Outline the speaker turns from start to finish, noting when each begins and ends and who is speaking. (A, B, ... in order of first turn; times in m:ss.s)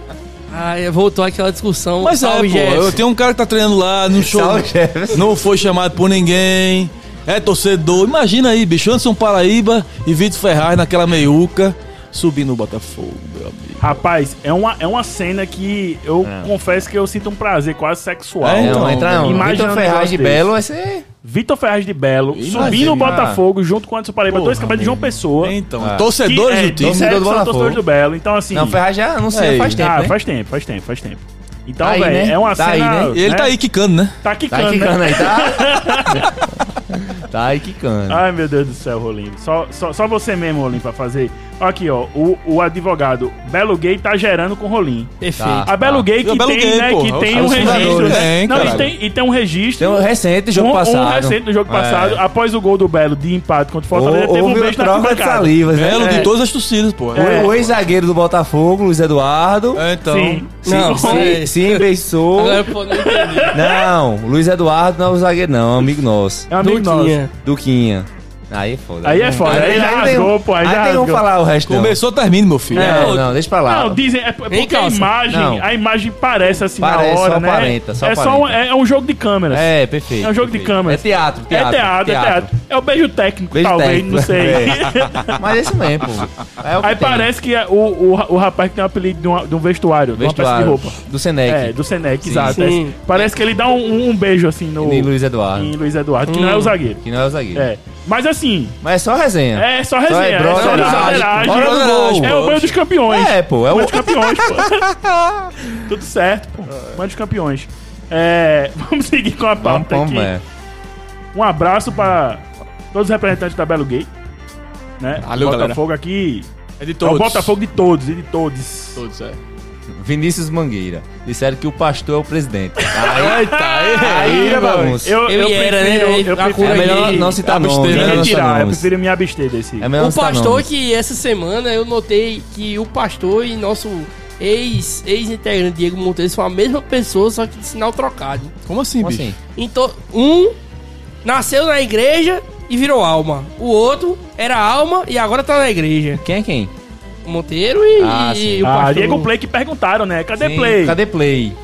0:00.5-0:03.0 A
0:02.0-0:13.9 B
0:04.1-0:05.4 C
0:13.8-0:20.4 D
0:16.2-0:16.5 C
0:18.4-0:19.6 B
0:18.6-0:21.0 C
0:21.2-0:25.5 D
0:22.3-0:23.3 B
0:22.5-0:23.4 C
0:24.3-0:27.1 B
0:25.8-0:26.1 C
0:26.2-0:28.8 D
0:26.8-0:27.8 C
0:28.5-0:30.2 C
0:29.3-0:29.8 B
0:29.8-0:33.5 D
0:31.8-0:33.2 C
0:33.1-0:34.2 B
0:34.2-0:36.4 D
0:34.5-0:38.2 C
0:38.1-0:45.1 D
0:45.2-0:45.7 A
0:45.4-0:46.1 C
0:45.7-0:56.3 D
0:46.2-0:48.9 B
0:47.3-0:48.9 C
0:49.8-0:52.2 C
0:53.9-0:56.3 C
0:55.7-0:57.6 B
0:57.1-0:57.6 D
0:57.1-0:59.9 C
0:59.7-1:00.4 B
1:00.0-1:01.4 D
1:00.6-1:02.7 C
1:00.6-1:01.8 A
1:02.3-1:03.6 A
1:02.9-1:03.8 D
1:03.5-1:06.5 C
1:06.5-1:07.2 D
1:06.6-1:07.3 A
1:07.4-1:12.0 C
1:09.0-1:11.2 D
1:09.4-1:09.9 A
1:11.6-1:13.1 B
1:12.7-1:14.0 C
1:12.8-1:13.3 A
1:12.8-1:25.4 D
1:14.5-1:15.1 A
1:15.3-1:15.6 C
1:16.8-1:18.6 C
1:19.5-1:22.5 C
1:23.5-1:27.3 C
1:26.8-1:37.0 D
1:30.1-1:32.7 C
1:32.5-1:33.0 A
1:34.8-1:35.7 C
1:36.2-1:36.8 A
1:37.0-1:37.7 C
1:37.5-1:38.8 D
1:38.8-1:42.4 C
1:39.5-1:44.8 D
1:40.5-1:41.5 A
1:41.3-1:42.8 B
1:43.1-1:45.5 C
1:45.7-1:50.3 D
1:49.6-1:50.4 C
1:51.3-1:54.1 D
1:55.0-1:56.5 D
1:55.2-1:55.8 B
1:56.8-1:57.5 B
1:57.0-1:59.0 D
1:58.9-1:59.4 B
2:00.0-2:05.2 C
2:02.8-2:09.9 D
2:03.0-2:04.8 B
2:05.3-2:07.4 A
2:06.6-2:08.9 C
2:07.4-2:08.4 B
2:09.8-2:10.7 C
2:10.0-2:18.5 A
2:18.6-2:19.3 B
2:19.0-2:19.4 C
2:19.5-2:20.5 A
2:21.2-2:26.2 A
2:26.2-2:26.7 C
2:27.2-2:29.3 A
2:28.0-2:28.7 C
2:28.6-2:31.0 D
2:30.4-2:31.6 C